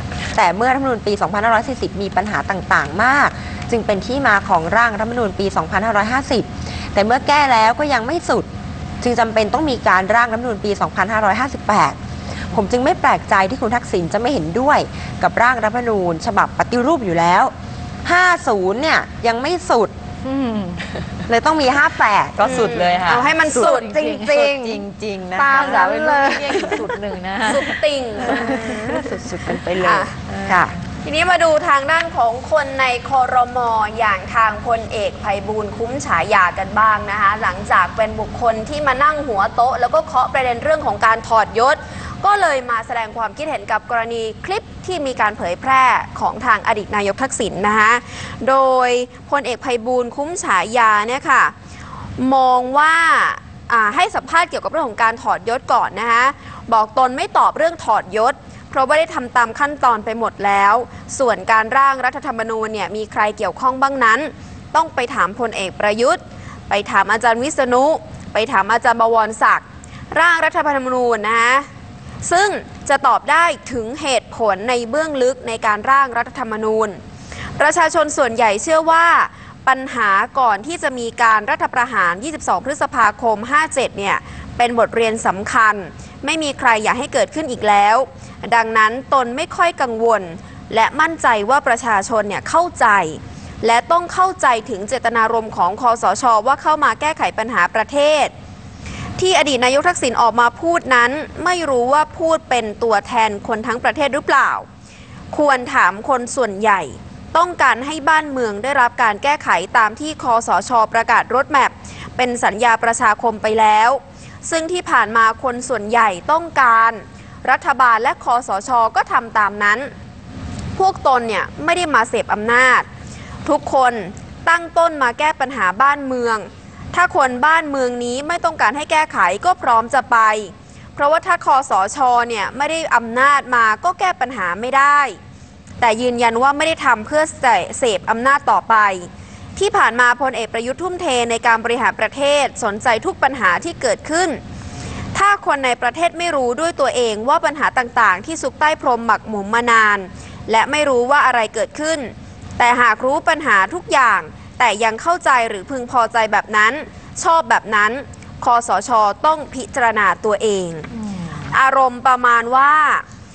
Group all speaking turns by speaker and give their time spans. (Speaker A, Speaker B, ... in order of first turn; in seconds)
Speaker A: 0.3-8.5, 9.0-12.0, 12.5-17.5, 18.0-19.9, 21.3-22.6, 23.5-24.8, 25.4-26.7, 29.0-30.7
Speaker B: 20.2-20.8, 25.4-27.7, 160.9-161.5
Speaker C: 22.4-26.9, 28.2-30.7
Speaker D: 22.4-24.0, 27.4-29.1, 29.7-30.2, 31.0-51.5, 52.2-71.7, 72.2-77.0, 77.6-98.3, 99.2-104.7, 105.3-119.9, 120.8-122.9, 123.4-135.2, 135.8-144.4, 145.1-160.9, 161.5-163.0